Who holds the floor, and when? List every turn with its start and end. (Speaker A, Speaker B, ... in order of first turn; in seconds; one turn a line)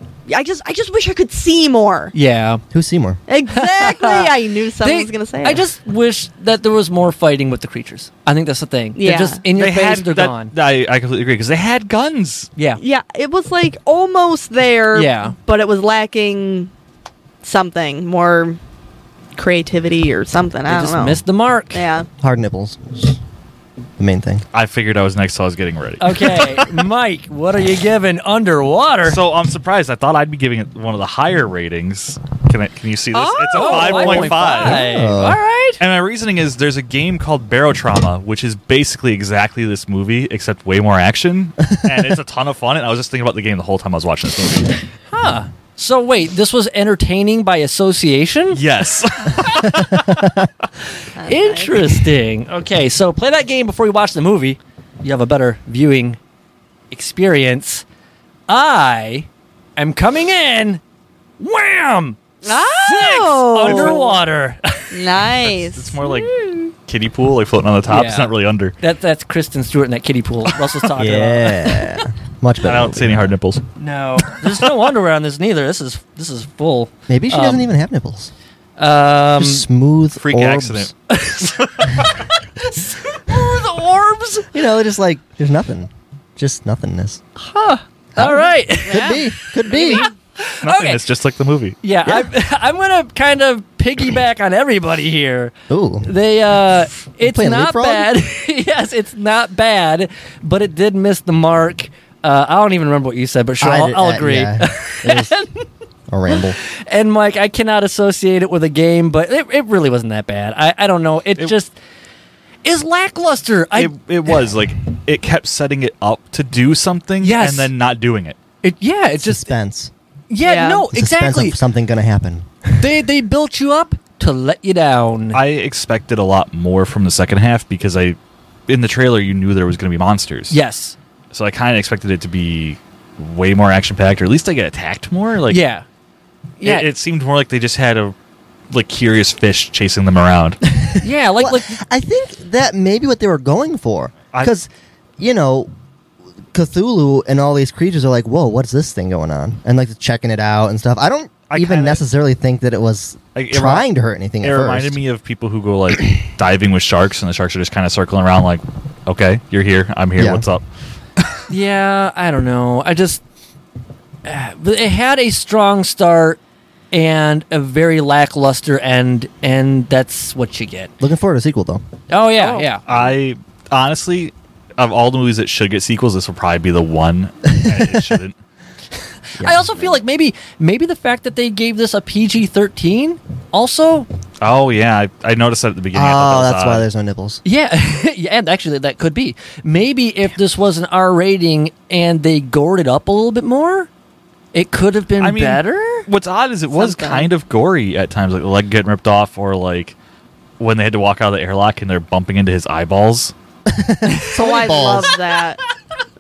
Speaker A: 0.3-2.1
Speaker B: 2.1-2.6
Speaker C: 2.7-3.2
Speaker A: 3.3-5.6
Speaker B: 3.5-10.5
Speaker A: 9.0-9.4
Speaker D: 9.6-12.5
Speaker A: 12.8-16.7
Speaker B: 14.9-15.3
Speaker A: 17.4-18.6
Speaker A: 19.4-22.1
Speaker B: 20.7-21.9
Speaker C: 22.2-23.2
Speaker C: 24.0-24.4
Speaker D: 24.5-26.8
Speaker B: 26.0-29.2
Speaker D: 29.1-34.9
Speaker A: 33.1-34.6
Speaker B: 33.5-35.8
Speaker C: 34.6-35.4
Speaker D: 35.8-44.8
Speaker B: 45.1-48.6
Speaker D: 48.5-50.5
Speaker C: 49.7-50.5
Speaker A: 51.2-51.8
Speaker B: 51.2-56.2
Speaker B: 56.9-57.9
Speaker B: 58.5-60.8
Speaker B: 61.4-65.1
Speaker A: 62.4-64.2
Speaker A: 64.9-66.7
Speaker D: 65.4-68.8
Speaker B: 67.9-71.8
Speaker C: 71.0-73.3
Speaker D: 72.6-73.7
Speaker B: 73.8-77.7
Speaker C: 77.1-78.3
Speaker B: 78.8-79.7
Speaker C: 79.4-80.9
Speaker D: 80.2-82.2
Speaker B: 81.1-84.5
Speaker C: 84.5-87.2
Speaker B: 87.4-91.0
Speaker C: 88.2-90.1
Speaker A: 88.9-90.1
Speaker D: 90.6-91.8
Speaker B: 91.8-105.7
Speaker C: 92.0-92.3
Speaker C: 95.7-96.1
Speaker C: 97.2-98.1
Speaker C: 103.6-105.4
Speaker C: 106.1-106.6
Speaker B: 106.3-111.8
Speaker B: 112.7-113.9
Speaker D: 113.8-118.4
Speaker B: 117.2-117.7
Speaker B: 118.6-119.5
Speaker C: 119.2-119.9
Speaker B: 120.3-121.6
Speaker A: 120.4-120.8
Speaker C: 120.9-122.8
Speaker B: 122.8-125.4
Speaker D: 125.3-128.2
Speaker D: 128.7-130.6
Speaker B: 130.5-131.0
Speaker D: 131.3-135.6
Speaker B: 135.5-135.8
Speaker B: 136.6-136.9
Speaker D: 136.6-138.2
Speaker D: 138.7-140.6
Speaker C: 140.7-145.7
Speaker B: 141.0-141.8
Speaker C: 146.5-155.0
Speaker D: 151.5-152.0
Speaker D: 153.3-153.9
Speaker D: 154.4-160.6
Speaker C: 160.2-160.4
Speaker B: 161.5-163.2
Speaker B: 164.2-166.4
Speaker B: 166.9-170.9
Speaker C: 171.0-171.8
Speaker B: 172.1-172.8
Speaker A: 172.3-173.0
Speaker D: 172.9-178.4
Speaker C: 177.6-178.0
Speaker B: 179.3-184.1
Speaker C: 179.4-179.8
Speaker D: 184.4-186.9
Speaker C: 185.9-187.4
Speaker B: 187.4-193.9
Speaker B: 194.5-196.1
Speaker D: 195.2-200.0
Speaker A: 196.7-197.3
Speaker D: 200.6-203.3
Speaker C: 203.7-205.2
Speaker A: 204.2-205.6